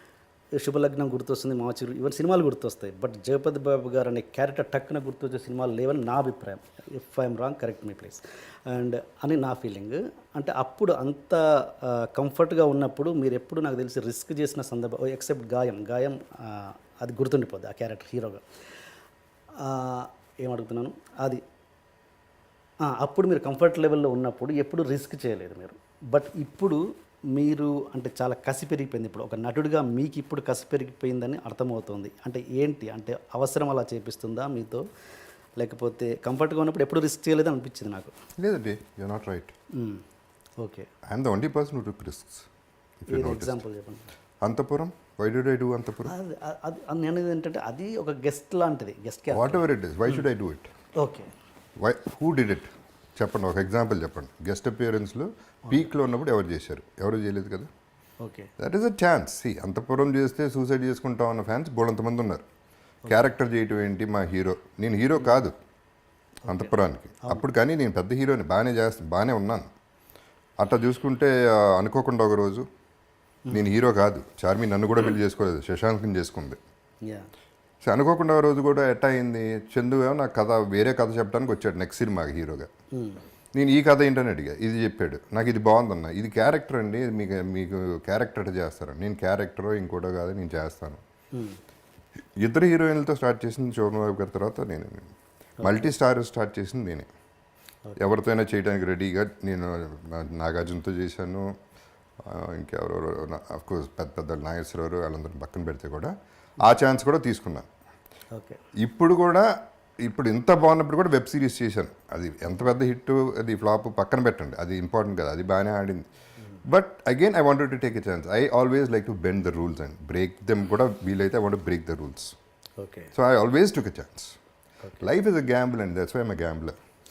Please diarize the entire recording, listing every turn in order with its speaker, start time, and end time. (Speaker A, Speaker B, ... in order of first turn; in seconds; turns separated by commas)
Speaker A: 0.6-18.4, Speaker A: 19.6-21.4, Speaker A: 22.9-26.8, Speaker A: 27.3-34.8, Speaker A: 35.6-38.1, Speaker B: 38.4-39.5, Speaker A: 39.8-40.0, Speaker A: 40.6-40.9, Speaker B: 41.1-42.5, Speaker B: 43.1-43.6, Speaker A: 43.1-44.1, Speaker B: 44.4-46.1, Speaker A: 46.0-49.6, Speaker B: 49.3-50.7, Speaker A: 51.0-51.3, Speaker B: 51.8-57.7, Speaker A: 58.2-58.5, Speaker B: 58.6-62.5, Speaker B: 63.1-65.6, Speaker A: 66.5-67.5, Speaker B: 66.5-69.7, Speaker B: 70.6-72.7, Speaker B: 73.5-76.6, Speaker B: 77.8-82.7, Speaker A: 82.9-83.2, Speaker B: 83.5-91.0, Speaker A: 91.3-91.6, Speaker B: 92.4-97.1, Speaker B: 98.0-101.5, Speaker B: 102.2-107.7, Speaker A: 108.3-108.6, Speaker B: 108.8-109.5, Speaker B: 110.0-116.0, Speaker B: 116.7-122.3, Speaker A: 122.8-123.1, Speaker B: 123.2-124.4, Speaker B: 125.0-126.8